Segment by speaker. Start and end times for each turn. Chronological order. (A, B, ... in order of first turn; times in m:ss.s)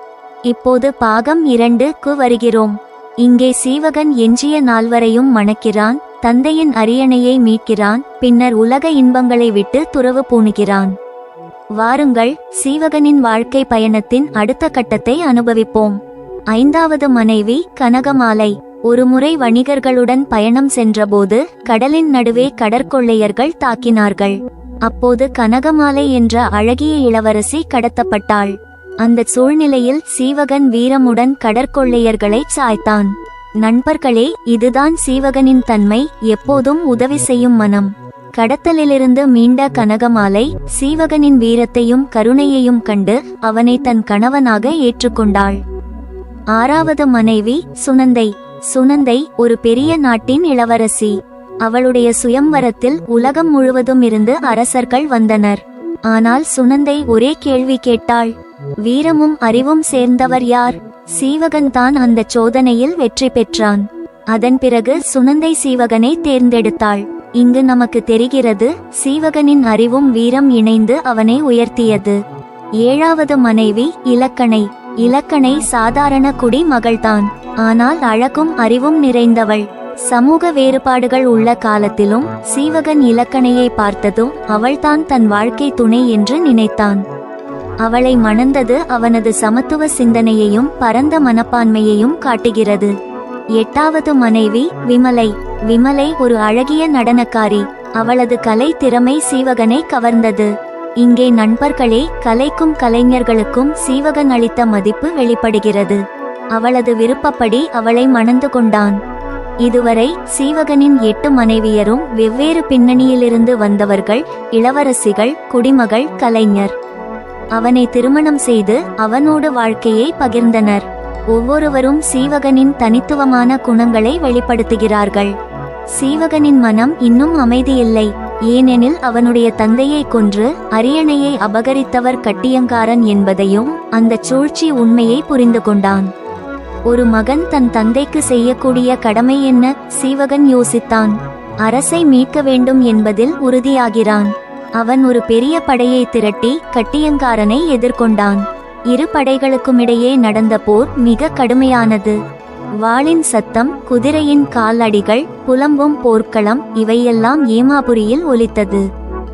0:00.5-0:10.9 A
0:11.8-0:16.0 A
0:16.5-0:45.6 A
0:46.5-1:12.2 A
1:12.8-1:27.0 A
1:27.8-1:32.9 A
1:33.6-1:46.0 A
1:46.5-1:49.0 A
1:49.6-1:56.7 A
1:57.5-2:05.3 A
2:05.9-2:16.1 A
2:16.9-2:32.2 A
2:32.8-2:38.8 A